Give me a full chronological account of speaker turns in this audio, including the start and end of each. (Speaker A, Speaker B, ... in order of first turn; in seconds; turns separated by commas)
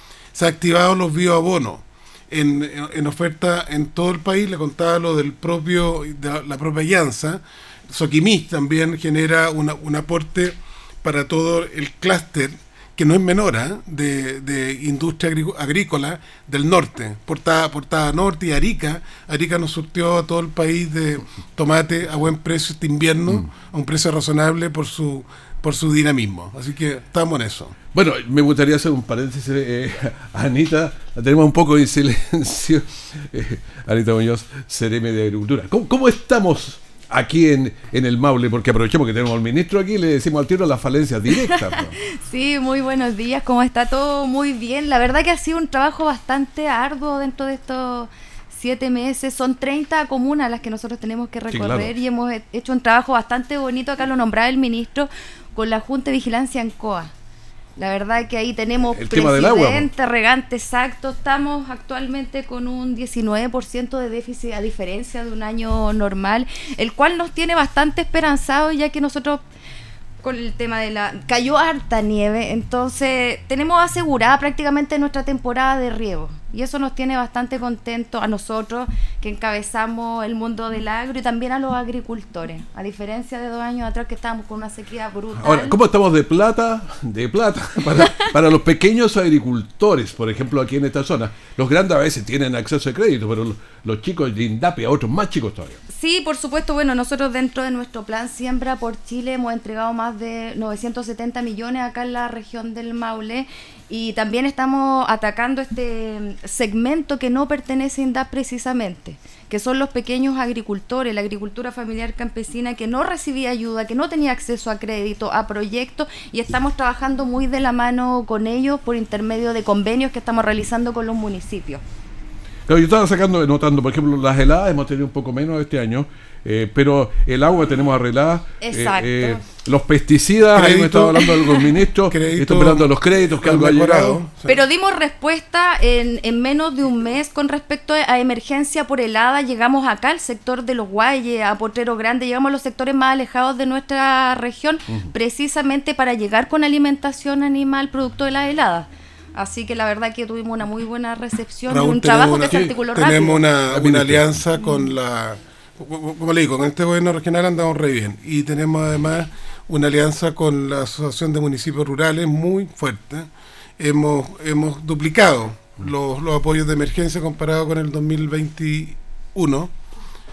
Speaker A: 0.3-27.8, Speaker B: 27.9-42.0, Speaker C: 41.3-57.1, Speaker B: 51.5-51.9, Speaker C: 57.8-69.4, Speaker B: 58.9-59.9, Speaker C: 70.2-85.8, Speaker B: 85.3-95.8, Speaker C: 95.9-121.8, Speaker B: 122.7-134.2, Speaker C: 128.6-129.4, Speaker A: 130.5-131.3, Speaker A: 132.1-134.6, Speaker C: 134.4-153.4, Speaker A: 151.7-169.7, Speaker B: 153.7-154.4